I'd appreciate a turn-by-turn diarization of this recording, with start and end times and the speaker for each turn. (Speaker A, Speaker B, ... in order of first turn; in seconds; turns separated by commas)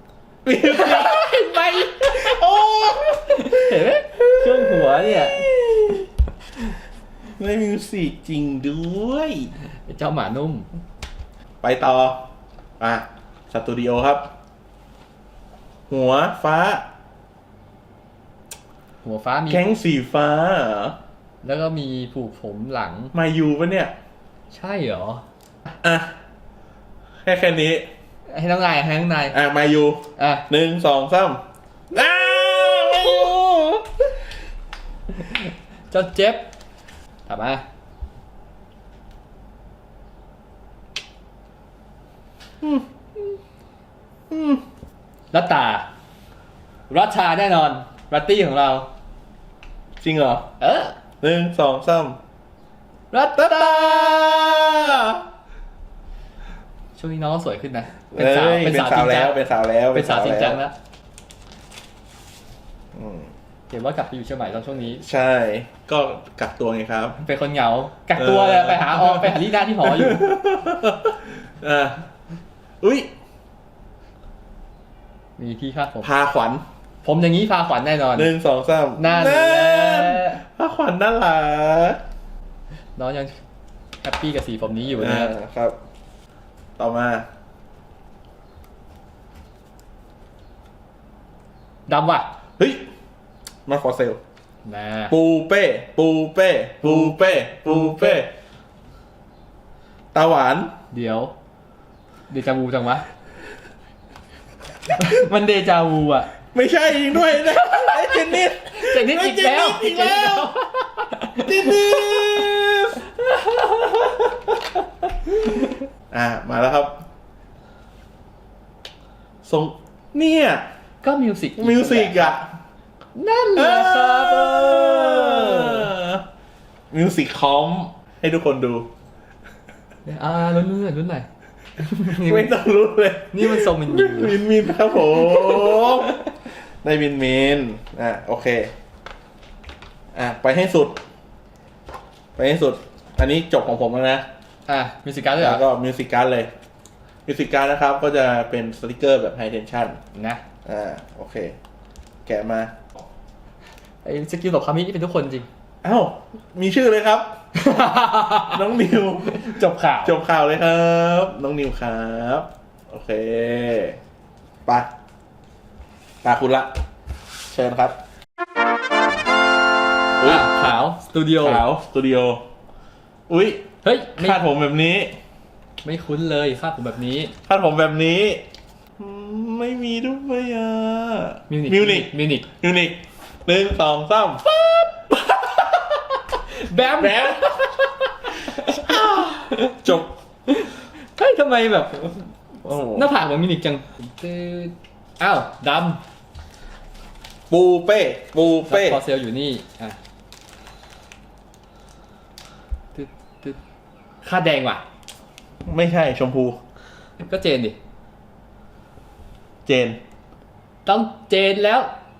Speaker A: 0.4-6.1, Speaker B: 0.6-2.4, Speaker B: 3.3-5.5, Speaker A: 7.4-9.5, Speaker B: 9.9-10.7, Speaker A: 11.6-12.2, Speaker A: 12.8-14.3, Speaker A: 15.9-16.8, Speaker B: 19.0-19.6, Speaker A: 19.5-21.0, Speaker B: 21.4-23.1, Speaker A: 23.1-23.9, Speaker B: 24.5-25.2, Speaker A: 25.8-26.1, Speaker A: 27.2-27.9, Speaker B: 28.3-29.4, Speaker A: 29.3-34.0, Speaker B: 30.2-30.4, Speaker B: 35.9-36.5, Speaker B: 37.2-37.6, Speaker A: 44.3-44.6, Speaker B: 45.3-45.9, Speaker B: 46.9-48.9, Speaker A: 50.0-50.5, Speaker B: 50.6-51.0, Speaker A: 51.2-52.2, Speaker B: 53.1-54.5, Speaker A: 53.3-55.2, Speaker B: 57.0-59.4, Speaker A: 58.1-60.6, Speaker B: 59.9-60.7, Speaker A: 62.9-63.3, Speaker B: 63.7-65.0, Speaker A: 65.0-67.2, Speaker B: 67.2-70.2, Speaker A: 68.2-72.1, Speaker A: 72.8-73.1, Speaker B: 75.4-76.1, Speaker A: 76.0-76.6, Speaker B: 77.0-78.3, Speaker A: 78.1-82.0, Speaker B: 79.0-80.4, Speaker B: 83.0-83.3, Speaker B: 84.0-85.3, Speaker A: 84.9-85.8, Speaker A: 86.8-87.2, Speaker B: 91.9-92.3, Speaker A: 92.6-92.8, Speaker A: 93.7-94.2, Speaker B: 94.6-95.1, Speaker A: 95.1-98.3, Speaker B: 96.8-98.2, Speaker A: 100.1-100.7, Speaker B: 100.9-101.3, Speaker B: 102.3-103.0, Speaker B: 104.9-106.3, Speaker A: 106.5-110.5, Speaker B: 107.5-112.5, Speaker A: 111.4-113.0, Speaker B: 113.1-114.3, Speaker B: 115.2-115.8, Speaker A: 116.1-117.0, Speaker A: 119.4-120.6, Speaker B: 121.0-122.3, Speaker A: 121.6-122.5, Speaker B: 123.2-125.9, Speaker A: 123.5-126.2, Speaker A: 126.9-128.9, Speaker B: 130.0-131.3, Speaker B: 131.8-132.5, Speaker A: 132.1-138.7, Speaker B: 133.3-134.4, Speaker B: 135.0-136.0, Speaker A: 140.1-141.0, Speaker A: 142.3-144.2, Speaker B: 144.7-145.6, Speaker A: 145.4-146.5, Speaker A: 147.2-150.0, Speaker B: 150.1-150.4, Speaker A: 150.6-151.5, Speaker A: 152.2-152.7, Speaker B: 154.0-155.5, Speaker A: 155.8-157.4, Speaker B: 157.5-158.6, Speaker A: 158.5-164.0, Speaker B: 159.3-160.2, Speaker A: 166.2-166.7, Speaker A: 167.5-167.9, Speaker A: 170.2-170.4, Speaker B: 170.2-171.6, Speaker A: 171.4-172.4, Speaker A: 173.3-173.7, Speaker B: 173.8-174.4, Speaker A: 174.2-175.2, Speaker B: 175.8-177.3, Speaker A: 177.4-178.4, Speaker A: 179.0-184.4, Speaker B: 181.5-182.5, Speaker B: 184.4-189.8, Speaker A: 186.9-187.6, Speaker A: 188.5-190.1, Speaker B: 190.5-192.3, Speaker A: 192.6-193.1, Speaker B: 192.9-196.0, Speaker A: 197.5-199.0, Speaker B: 198.7-200.0, Speaker B: 202.9-203.6, Speaker B: 204.2-204.8, Speaker A: 205.7-206.6, Speaker B: 207.2-207.8, Speaker A: 209.7-210.0, Speaker B: 210.8-211.9